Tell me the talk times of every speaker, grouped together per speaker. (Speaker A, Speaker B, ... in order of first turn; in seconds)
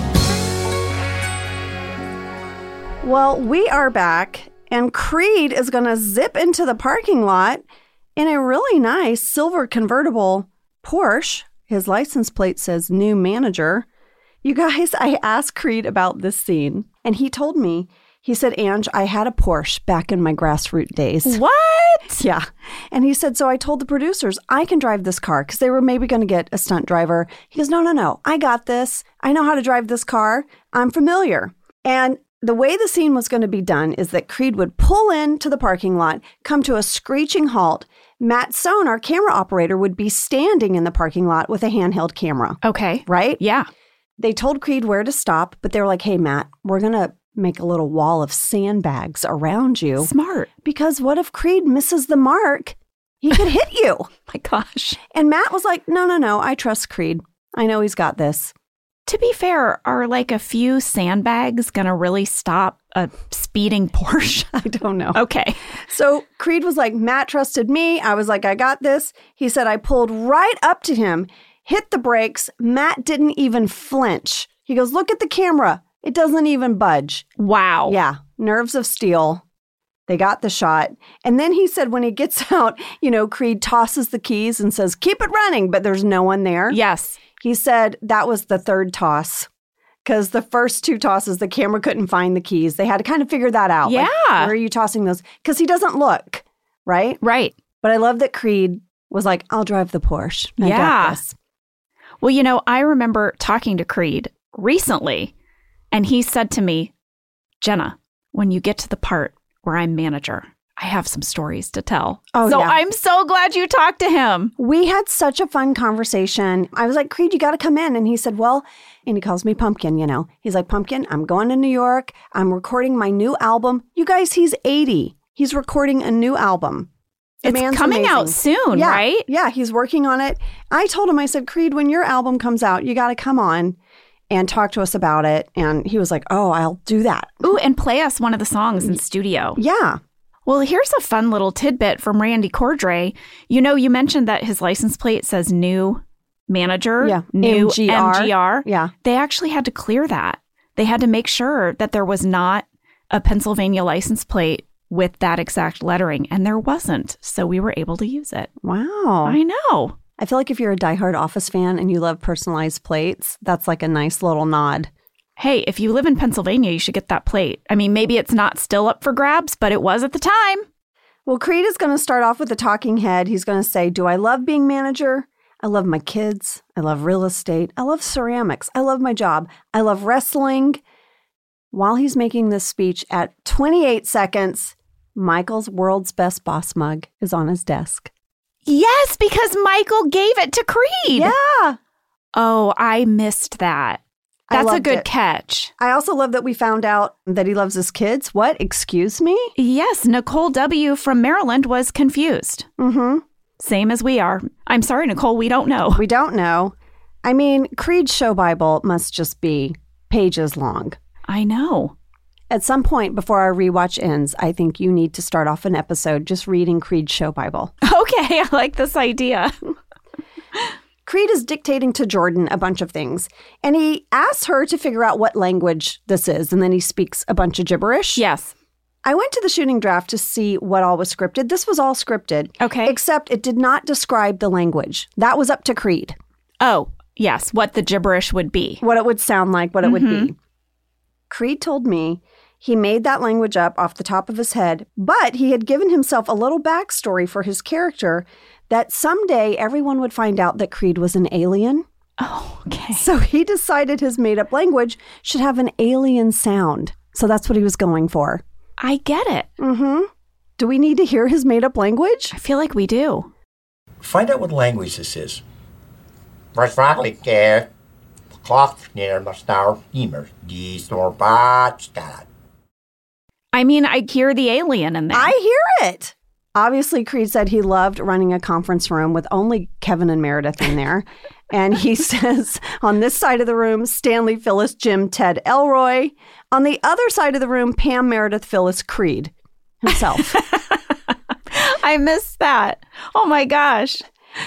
Speaker A: 3.0-7.6, 8.2-13.8, 14.4-21.4, 22.2-43.4, 44.2-50.1, 50.6-54.1, 55.1-58.5, 64.5-65.2, 65.8-77.2, 77.9-79.4, 80.1-86.8, 87.4-89.5, 90.0-97.2, 97.8-101.3, 112.3-112.8, 114.6-126.9, 127.4-133.8, 134.3-137.5, 139.6-140.0, 147.0-148.9, 158.6-159.4, 160.2-164.9, 171.2-180.8, 181.7-188.1, 191.1-191.8, 194.5-195.1, 195.8-199.5, 202.8-203.2, 205.9-211.0, 212.5-217.7, 221.1-228.2, 229.0-236.2, 238.8-240.3, 241.3-251.8, 252.9-258.4, 259.6-262.3, 275.1-290.4
Speaker B: 21.2-22.2, 42.6-43.7, 50.0-50.5, 54.3-55.0, 59.1-64.5, 65.1-65.6, 77.4-78.0, 86.7-87.2, 93.8-94.5, 97.2-97.5, 100.6-101.2, 102.2-105.3, 105.9-106.9, 107.6-114.5, 127.4-129.3, 137.4-139.6, 140.4-158.5, 159.2-159.9, 165.4-170.6, 188.7-191.3, 192.3-194.0, 194.5-195.7, 199.6-202.7, 203.6-206.0, 211.3-211.9, 217.8-219.6, 228.2-228.5, 232.6-232.9, 236.6-238.8, 239.8-240.3, 252.2-253.1, 258.8-259.5, 262.3-263.3, 273.5-275.3, 290.3-290.8, 291.5-294.0
Speaker C: 264.0-265.4, 266.5-267.7, 268.4-272.3